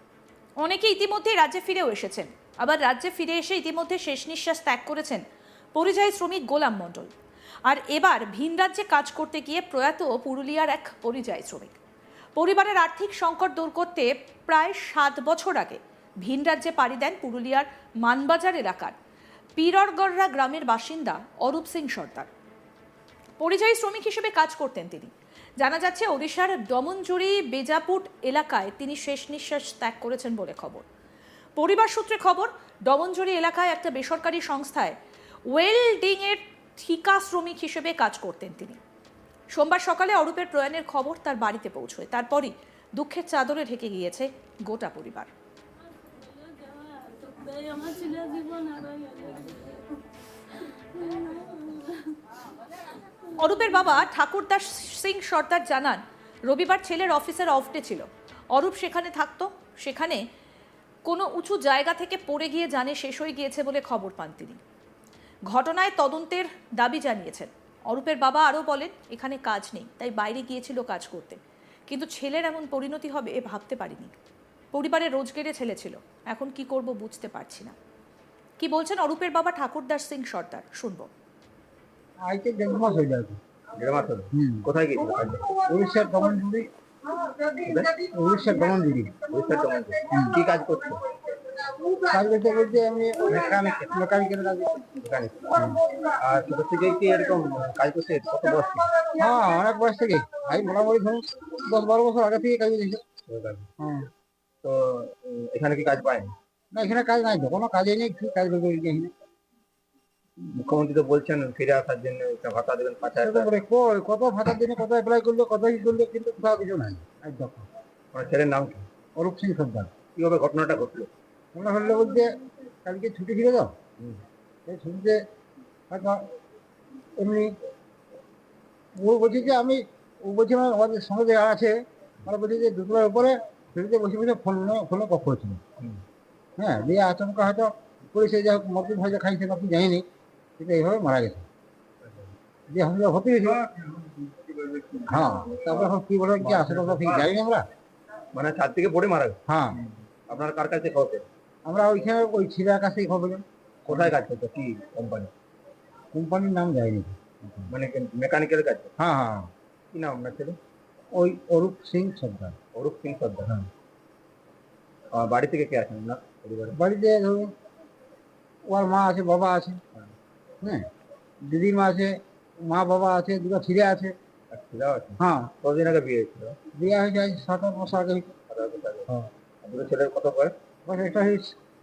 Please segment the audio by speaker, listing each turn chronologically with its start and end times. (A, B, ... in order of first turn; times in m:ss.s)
0:00.6-0:05.2 A
0:05.8-0:07.1 A
0:07.6-0:11.8 A
0:12.4-0:19.0 A
0:19.6-0:22.3 A
0:23.4-0:30.8 A
0:31.6-0:35.0 A
0:35.5-0:38.8 A
0:39.5-0:45.3 A
0:46.9-0:49.4 B
0:53.4-1:00.2 A
1:01.0-1:04.6 A
1:05.5-1:14.1 A
1:14.7-1:17.8 A
1:18.6-1:21.1 A
1:22.2-1:23.4 C
1:23.8-1:25.5 D
1:24.3-1:24.7 C
1:25.6-1:26.7 C
1:27.6-1:28.0 D
1:28.0-1:29.2 C
1:29.3-1:31.1 D
1:30.1-1:30.4 C
1:32.0-1:34.9 C
1:35.0-1:39.0 D
1:39.1-1:43.0 C
1:43.3-1:43.6 D
1:43.8-1:44.1 C
1:44.6-1:46.3 D
1:46.7-1:49.1 C
1:50.4-1:53.5 D
1:53.2-1:57.7 C
1:58.1-1:58.9 D
1:59.2-1:59.9 C
2:00.2-2:01.1 D
2:01.5-2:03.7 C
2:04.7-2:05.2 C
2:05.9-2:06.3 C
2:07.2-2:07.5 C
2:09.0-2:15.6 C
2:16.6-2:20.0 C
2:20.6-2:21.4 C
2:22.7-2:23.6 C
2:23.8-2:25.0 D
2:25.1-2:27.7 C
2:26.5-2:27.3 D
2:28.3-2:29.4 D
2:29.5-2:29.8 C
2:30.3-2:31.2 D
2:31.6-2:34.0 C
2:33.9-2:35.3 D
2:36.1-2:37.7 C
2:37.7-2:38.9 D
2:39.0-2:39.5 C
2:39.9-2:40.6 D
2:41.1-2:42.6 C
2:42.8-2:43.6 D
2:45.1-2:46.8 D
2:46.7-2:47.5 C
2:48.7-2:49.8 C
2:51.4-2:54.1 C
2:54.5-2:56.6 D
2:55.2-2:55.5 C
2:56.7-2:58.3 C
2:58.5-2:59.1 D
2:59.6-3:00.5 D
3:00.9-3:01.6 C